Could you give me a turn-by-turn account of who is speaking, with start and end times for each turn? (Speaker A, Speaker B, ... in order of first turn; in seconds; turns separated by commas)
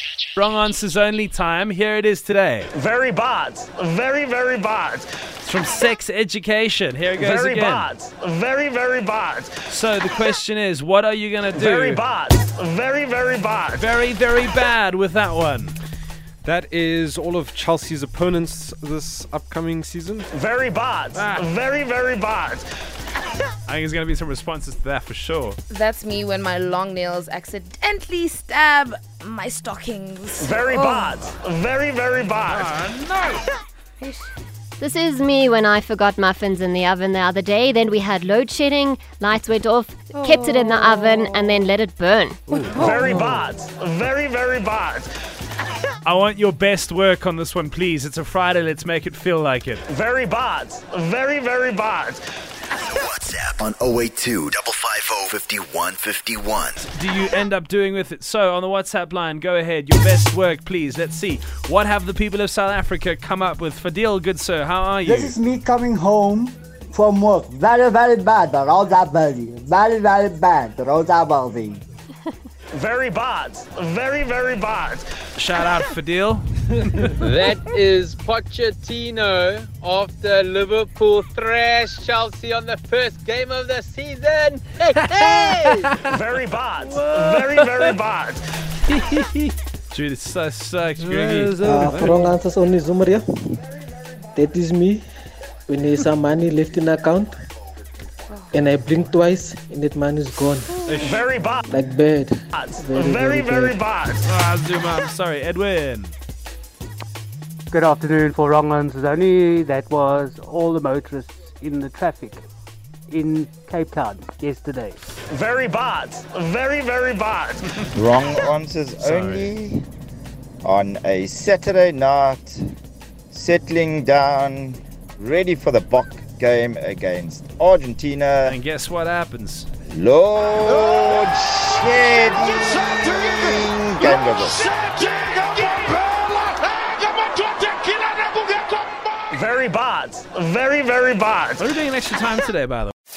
Speaker A: 0.3-2.7, Speaker B: 2.7-5.1, Speaker A: 5.4-7.9, Speaker B: 7.2-9.6, Speaker A: 9.6-12.0, Speaker B: 11.6-13.7, Speaker A: 13.7-15.7, Speaker C: 16.4-20.3, Speaker B: 20.3-22.6, Speaker A: 21.1-21.5, Speaker A: 23.7-25.6, Speaker D: 25.7-31.1, Speaker B: 30.4-32.6, Speaker A: 32.5-33.4, Speaker E: 34.8-42.6, Speaker D: 40.1-41.2, Speaker D: 42.5-42.9, Speaker B: 42.8-45.1, Speaker A: 46.0-49.8, Speaker B: 49.9-52.2, Speaker F: 52.8-56.7, Speaker A: 56.8-65.3, Speaker G: 65.0-71.8, Speaker B: 72.7-75.0, Speaker A: 75.3-76.4, Speaker H: 77.2-85.9, Speaker B: 86.1-88.4, Speaker A: 86.8-87.9, Speaker A: 88.8-91.9, Speaker C: 91.0-92.3, Speaker I: 91.6-93.2, Speaker I: 94.3-95.0, Speaker I: 95.7-97.3, Speaker I: 98.5-100.8, Speaker A: 100.8-101.3, Speaker B: 101.0-101.6, Speaker I: 101.7-103.8, Speaker B: 102.6-104.2, Speaker A: 104.2-106.1, Speaker J: 107.7-112.4, Speaker J: 113.1-115.0, Speaker B: 115.3-117.6, Speaker K: 117.9-119.8, Speaker A: 119.0-119.5, Speaker K: 120.6-122.6, Speaker K: 123.3-128.6, Speaker A: 128.4-129.7, Speaker K: 129.9-134.8, Speaker B: 139.3-141.6, Speaker A: 141.6-142.9